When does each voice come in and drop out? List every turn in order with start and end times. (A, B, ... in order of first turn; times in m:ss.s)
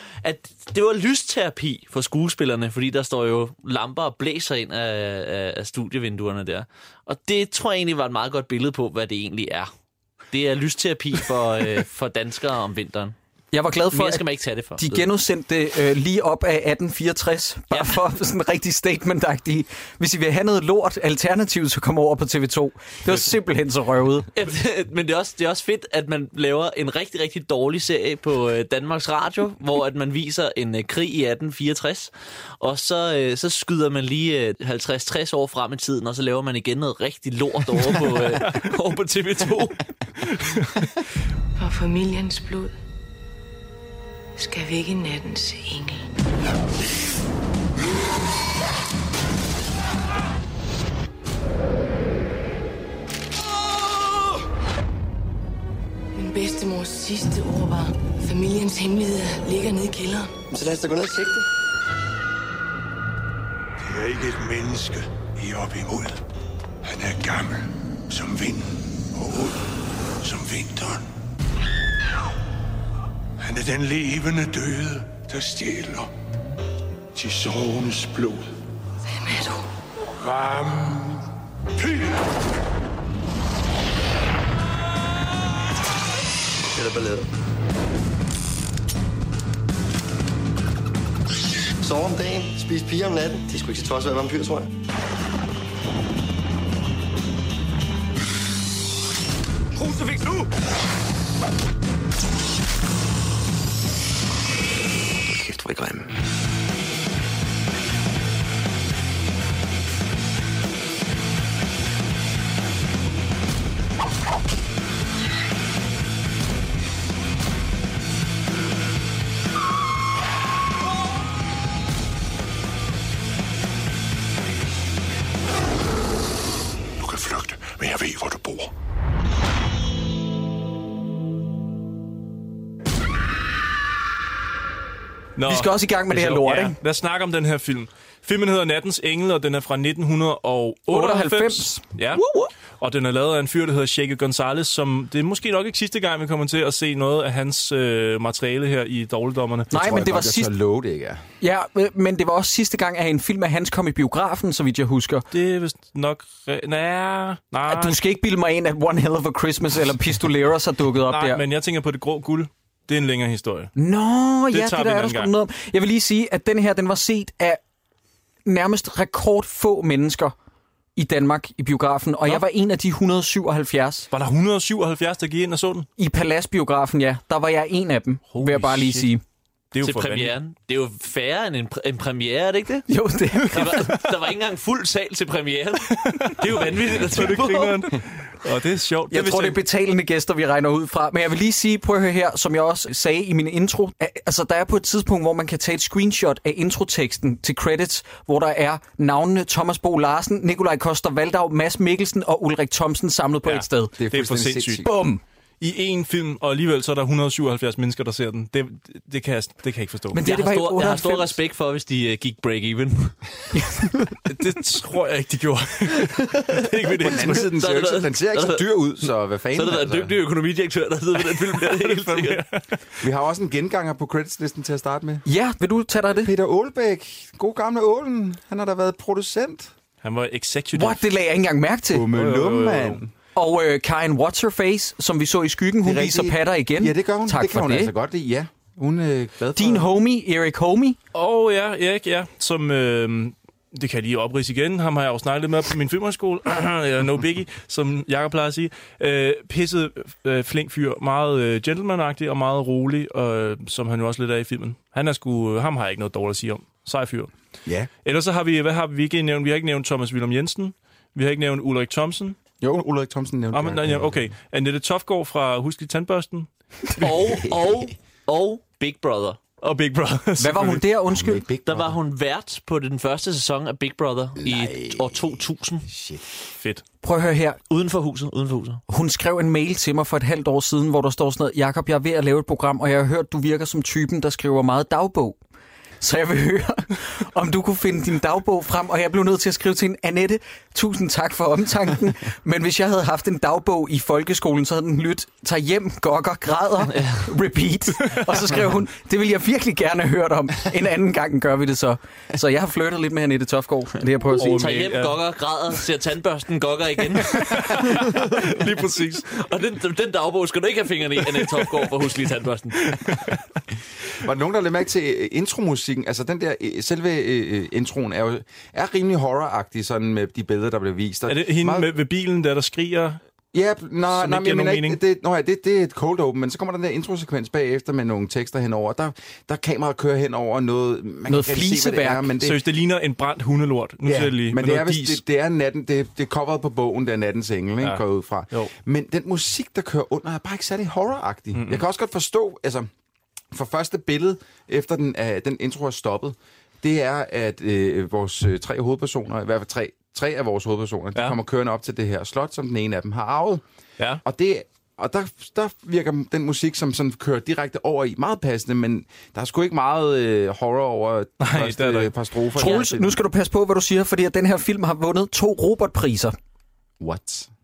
0:00.2-0:09.7 A
0:10.3-0:13.1 A
0:13.5-0:14.2 B
0:13.9-0:15.1 A
0:14.8-0:24.3 B
0:17.7-0:18.0 A
0:24.3-0:39.8 A
0:38.0-0:38.6 C
0:40.2-0:40.9 C
0:41.6-0:42.8 D
0:44.4-0:46.0 D
0:56.1-1:00.4 D
1:00.5-1:01.4 E
1:03.8-1:06.2 F
1:06.8-1:09.6 F
1:10.2-1:11.1 F
1:13.4-1:16.1 F
1:17.1-1:18.4 F
1:19.0-1:19.7 D
1:20.2-1:21.2 F
1:21.8-1:22.3 F
1:26.7-1:27.3 E
1:31.8-1:34.7 E
2:07.0-2:08.7 F
2:15.4-2:22.2 C
2:15.4-2:16.8 B
2:20.9-2:22.5 B
2:22.8-2:29.7 C
2:29.7-2:30.5 B
2:29.7-2:31.2 G
2:31.4-2:35.3 B
2:35.3-2:38.0 C
2:37.7-2:41.4 B
2:41.1-2:43.7 C
2:43.8-2:47.6 B
2:44.5-2:45.3 C
2:48.4-2:50.3 B
2:51.0-2:54.1 B
2:54.1-2:55.9 C
2:56.0-2:59.2 B
2:58.3-2:59.1 C
2:59.7-3:00.3 C
2:59.8-3:02.9 A
3:02.9-3:04.0 B
3:03.5-3:07.9 A
3:03.6-3:03.9 C
3:05.9-3:09.6 C
3:09.1-3:23.9 B
3:23.4-3:24.9 C
3:24.0-3:24.9 G
3:24.8-3:25.2 B
3:25.6-3:30.2 C
3:30.1-3:31.4 B
3:30.2-3:33.2 A
3:33.5-3:34.1 B
3:34.2-3:37.5 C
3:37.0-3:40.2 G
3:37.2-3:42.4 A
3:41.3-3:42.6 C
3:43.0-3:45.2 G
3:45.2-3:46.3 B
3:46.1-3:49.7 G
3:50.0-3:51.1 C
3:50.7-3:52.1 B
3:51.9-3:53.1 G
3:52.1-3:53.0 C
3:53.3-3:57.9 B
3:55.8-3:59.9 G
3:59.5-4:01.0 B
4:01.1-4:17.3 C
4:18.0-4:22.4 C
4:22.6-4:24.2 G
4:23.5-4:27.2 C
4:27.0-4:29.4 A
4:27.2-4:27.8 G
4:29.6-4:30.8 C
4:30.4-4:31.4 B
4:31.0-4:32.0 G
4:31.6-4:35.8 A
4:34.4-4:36.2 G
4:36.6-4:36.8 C
4:37.0-4:37.6 B
4:37.7-4:38.8 A
4:38.9-4:45.4 B
4:46.0-5:04.7 B
4:56.8-4:57.2 A
5:04.4-5:05.2 C
5:04.4-5:08.6 A
5:07.2-5:09.3 C
5:09.2-5:12.9 A
5:12.8-5:13.4 C
5:14.2-5:21.9 G
5:21.3-5:23.2 C
5:23.5-5:32.6 G
5:24.1-5:25.0 C
5:31.3-5:32.3 B
5:32.4-5:35.2 C
5:34.0-5:42.9 G
5:41.5-5:41.8 C
5:43.5-5:53.6 G
5:54.2-6:03.2 G
6:01.4-6:02.1 C
6:02.6-6:06.3 B
6:07.0-6:07.5 G